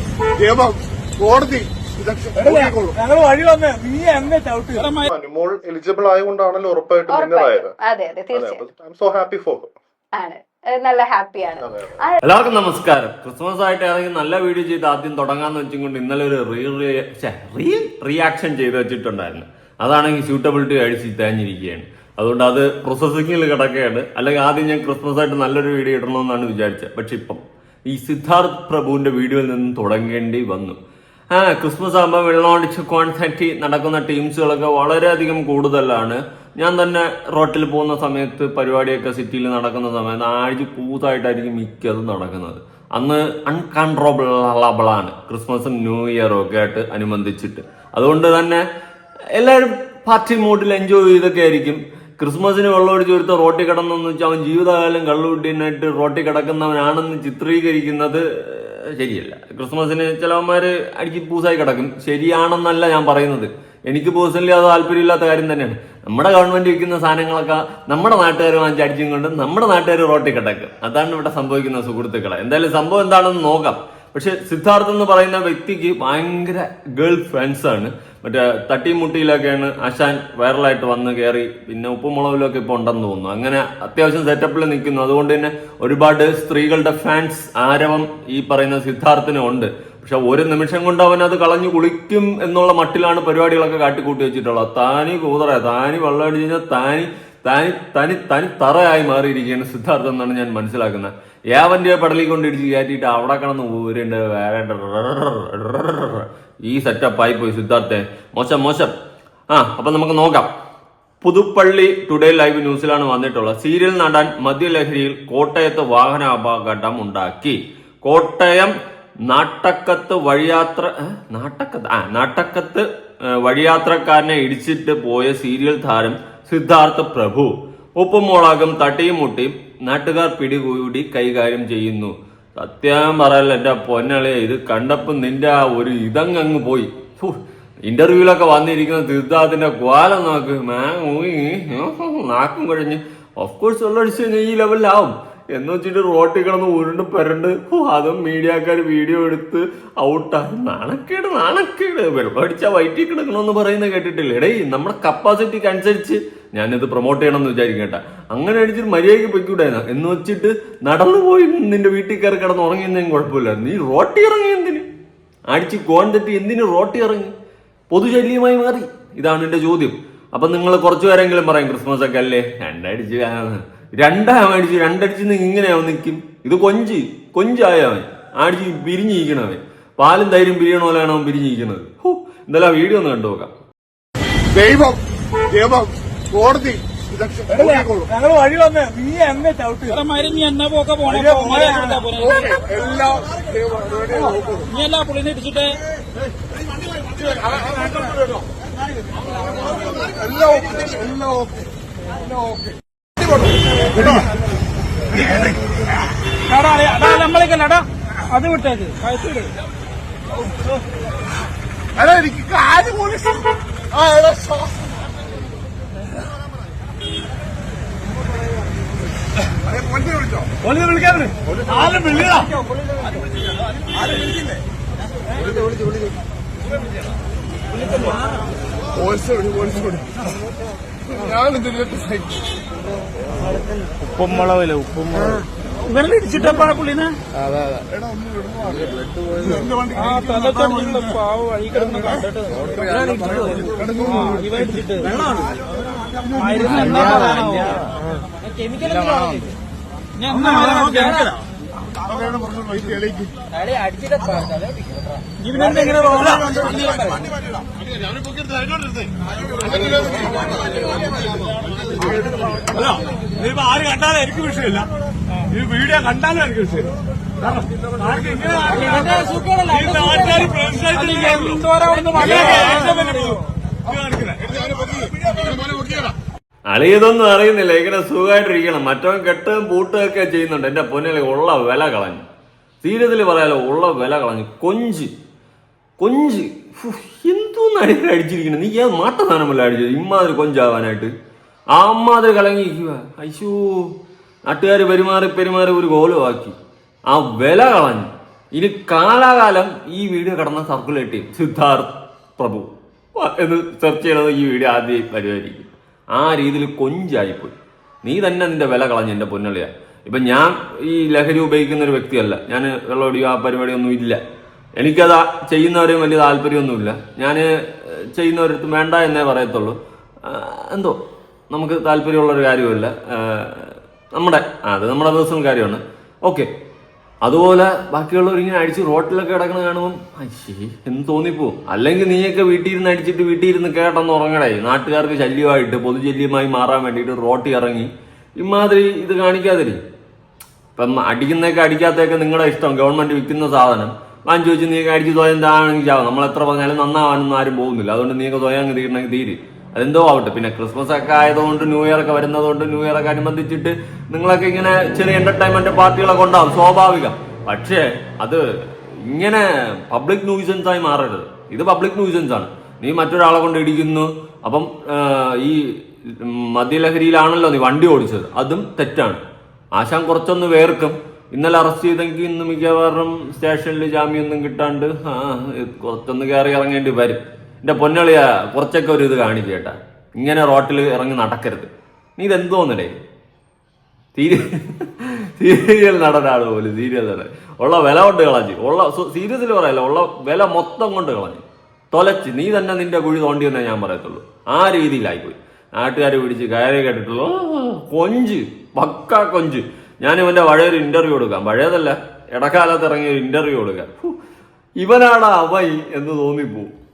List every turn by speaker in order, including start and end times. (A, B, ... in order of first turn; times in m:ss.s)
0:00.4-0:03.0 A
0:03.1-0:04.8 B
0:04.8-0:05.0 C
0:05.0-0:07.7 D
0:07.1-0:08.6 E
0:08.3-0:09.7 D
0:10.1-0:12.2 E
0:11.6-0:12.0 D
0:12.2-0:30.8 F
0:31.3-0:48.6 F
0:49.4-1:48.9 F
1:49.5-1:50.5 F
1:51.2-1:58.7 F
1:59.3-2:44.8 F
2:45.5-2:47.3 F
2:47.9-3:03.5 F
3:04.5-3:08.1 A
3:07.5-3:07.9 C
3:08.3-3:10.0 B
3:09.9-3:12.6 C
3:11.0-3:14.7 A
3:14.7-3:15.8 C
3:17.2-3:18.1 A
3:19.9-3:21.6 A
3:23.2-3:24.3 A
3:26.5-3:29.5 C
3:32.0-3:34.8 A
3:39.7-3:40.5 A
3:49.0-3:50.1 A
3:51.2-3:52.4 A
3:55.9-3:57.2 C
3:59.5-4:00.1 A
3:59.9-4:05.4 C
4:03.2-4:04.6 A
4:06.3-4:07.9 C
4:10.2-4:11.4 C
4:12.2-4:13.3 A
4:15.4-4:17.2 C
4:26.3-4:26.8 B
4:28.4-4:33.4 C
4:36.7-4:42.2 F
4:42.8-4:45.1 F
4:46.0-4:51.1 F
4:51.7-4:53.9 F
4:54.5-4:56.6 F
4:57.1-5:14.2 F
5:14.8-5:21.0 F
5:21.5-5:26.5 F
5:27.2-5:39.8 F
5:40.8-6:09.2 F
6:09.8-6:22.9 F
6:24.2-6:44.1 F
6:44.8-6:46.7 F